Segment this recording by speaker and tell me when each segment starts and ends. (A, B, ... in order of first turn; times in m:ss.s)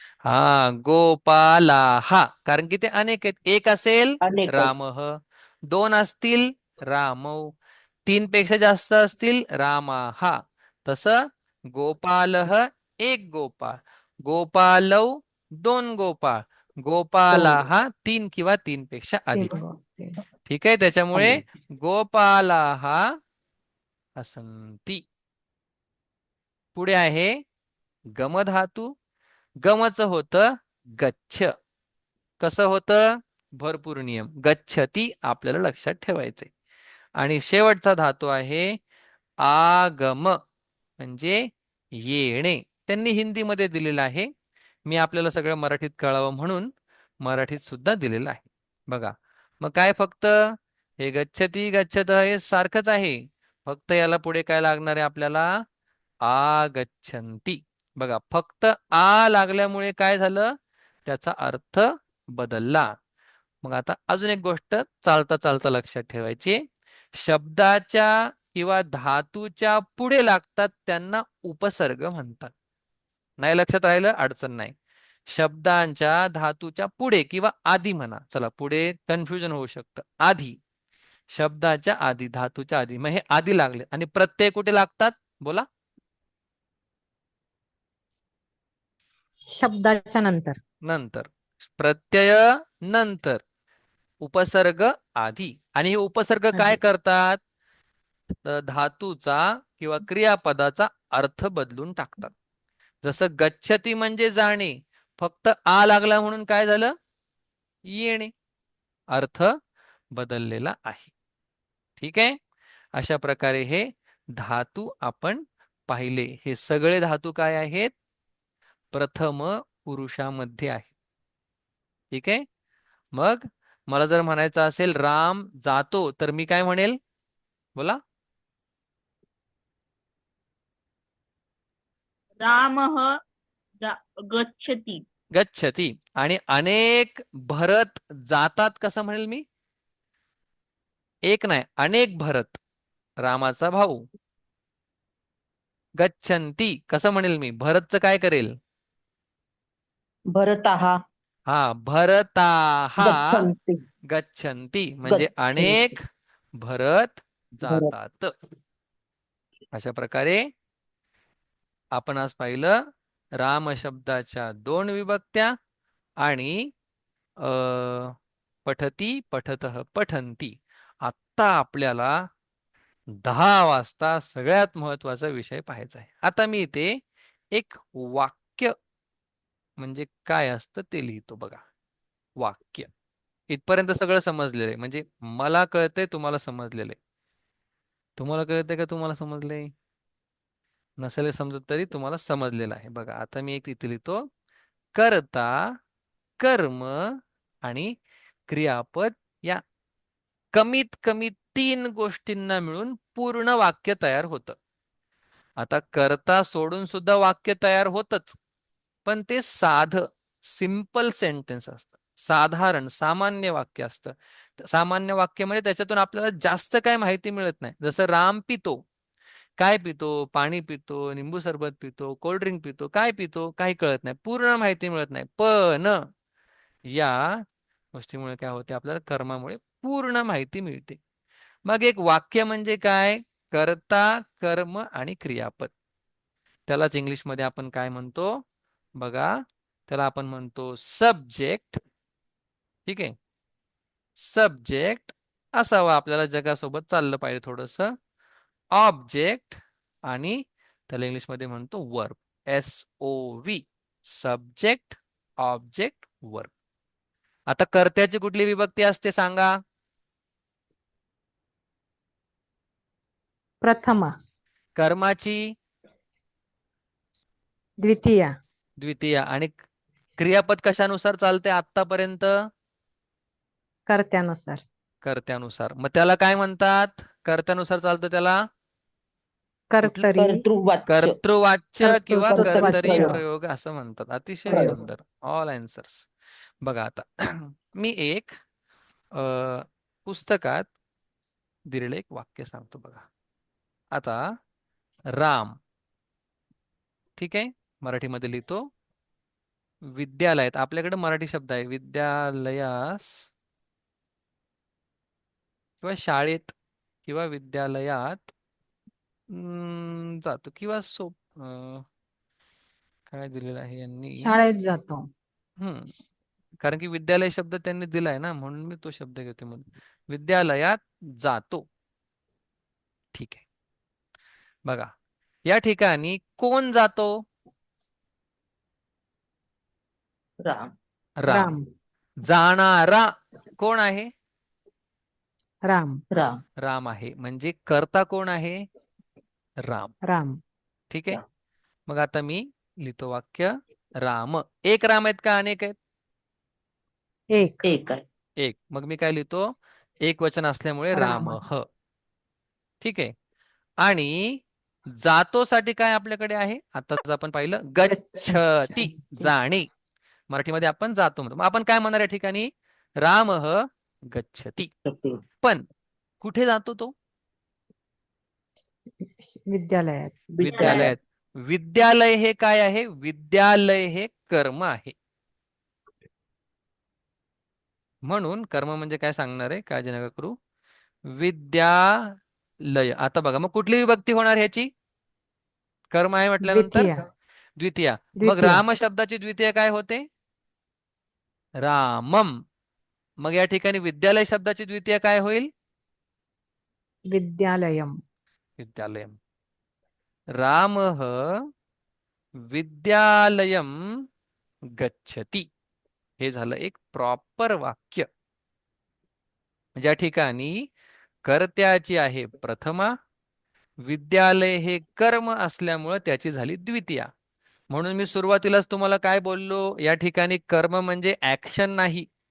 0:00.2-0:07.5 A
0:04.2-0:04.7 B
0:08.0-0:19.5 A
0:19.3-0:20.2 C
0:20.5-0:23.2 A
0:24.2-0:25.0 A
0:26.7-0:27.4 A
0:28.1-0:28.9 A
0:29.6-0:31.5 A
0:32.4-0:36.5 A
0:37.2-0:38.8 A
0:39.4-0:40.4 A
0:41.0-0:44.3 A
0:44.8-0:46.7 A
0:47.2-0:55.6 A
0:56.2-1:02.9 A
1:03.6-1:06.6 A
1:07.1-1:12.5 A
1:13.4-1:14.7 A
1:15.3-1:20.6 A
1:21.3-1:25.6 A
1:29.6-1:30.6 C
1:30.8-1:33.4 A
1:34.2-1:37.4 A
1:38.4-1:42.3 A
1:43.0-1:46.9 A
1:47.8-1:48.3 A
1:49.1-1:49.5 A
1:50.1-1:51.1 A
1:52.0-1:52.4 A
1:52.9-1:57.9 A
1:58.9-2:00.9 A
2:02.1-2:02.4 A
2:03.1-2:07.0 A
2:12.4-2:13.1 D
2:13.8-2:15.0 D
2:15.3-2:19.4 A
2:21.3-2:22.6 A
2:23.2-2:24.0 A
2:26.0-2:28.5 A
2:30.3-2:31.0 B
2:31.5-2:33.5 A
2:33.0-2:33.8 B
2:34.1-2:36.0 A
2:35.1-2:35.8 B
2:36.6-2:38.3 A
2:37.6-2:37.9 B
2:39.7-2:40.4 A
2:41.9-2:42.8 A
2:43.4-2:45.5 A
2:46.2-2:46.7 A
2:47.4-2:48.1 A
2:48.6-2:52.2 A
2:53.2-2:57.0 A
2:57.5-2:58.7 A
2:59.8-3:01.6 A
3:02.4-3:02.9 A
3:03.5-3:07.0 A
3:08.2-3:09.7 A
3:11.0-3:14.3 A
3:14.9-3:15.7 A
3:16.4-3:17.9 A
3:18.5-3:19.6 A
3:20.5-3:24.6 A
3:25.6-3:28.4 A
3:29.0-3:38.8 A
3:39.6-3:46.1 A
3:46.9-3:51.0 A
3:51.6-3:55.7 A
3:56.7-3:58.4 A
3:59.0-3:59.3 A
3:59.9-4:01.8 A
4:02.9-4:03.1 A
4:04.2-4:07.9 A
4:08.7-4:16.5 A
4:17.5-4:19.6 A
4:23.6-4:24.1 C
4:24.8-4:25.5 A
4:27.8-4:28.3 C
4:28.8-4:29.6 A
4:30.2-4:32.5 A
4:33.9-4:34.6 C
4:35.0-4:38.4 A
4:39.7-4:40.4 C
4:39.8-4:40.1 A
4:40.2-4:41.2 B
4:40.9-4:46.1 A
4:41.8-4:43.2 C
4:42.3-4:43.2 B
4:44.5-4:44.8 C
4:44.5-4:44.8 B
4:46.6-4:48.3 A
4:49.1-4:50.7 A
4:51.7-4:53.0 A
4:53.9-4:54.2 A
4:55.2-4:55.6 A
4:57.2-4:58.7 A
4:59.9-5:03.2 A
5:05.8-5:06.5 A
5:07.0-5:08.3 A
5:09.3-5:11.8 A
5:13.1-5:14.3 A
5:14.2-5:15.1 C
5:15.6-5:15.9 A
5:16.6-5:21.6 A
5:23.1-5:23.4 A
5:24.6-5:24.9 A
5:25.4-5:27.2 A
5:30.4-5:30.7 B
5:31.2-5:31.5 A
5:31.3-5:31.6 C
5:32.2-5:34.1 A
5:35.7-5:36.0 C
5:36.1-5:36.4 B
5:36.6-5:38.6 A
5:39.6-5:39.9 A
5:40.0-5:40.4 C
5:40.9-5:41.2 A
5:41.9-5:45.7 A
5:47.3-5:47.6 C
5:47.6-5:48.0 B
5:48.4-5:51.6 A
5:50.9-5:51.4 C
5:52.8-5:53.1 A
5:53.8-5:54.4 A
5:55.0-5:59.7 A
5:57.8-5:59.3 C
6:00.3-6:04.7 A
6:04.8-6:05.2 B
6:06.2-6:06.9 A
6:09.0-6:10.2 C
6:10.3-6:10.9 B
6:10.4-6:14.9 A
6:10.5-6:10.9 D
6:18.0-6:20.4 A
6:21.1-6:24.7 A
6:25.9-6:26.9 A
6:26.4-6:27.0 C
6:27.6-6:30.0 A
6:28.2-6:28.6 C
6:31.6-6:32.4 A
6:33.2-6:35.5 A
6:37.1-6:37.9 C
6:38.6-6:39.2 A
6:40.3-6:41.5 A
6:42.4-6:44.0 A
6:44.7-6:45.5 A
6:46.2-6:48.1 A
6:49.8-6:50.7 A
6:51.2-6:53.0 A
6:53.8-6:57.1 A
6:57.7-7:02.0 A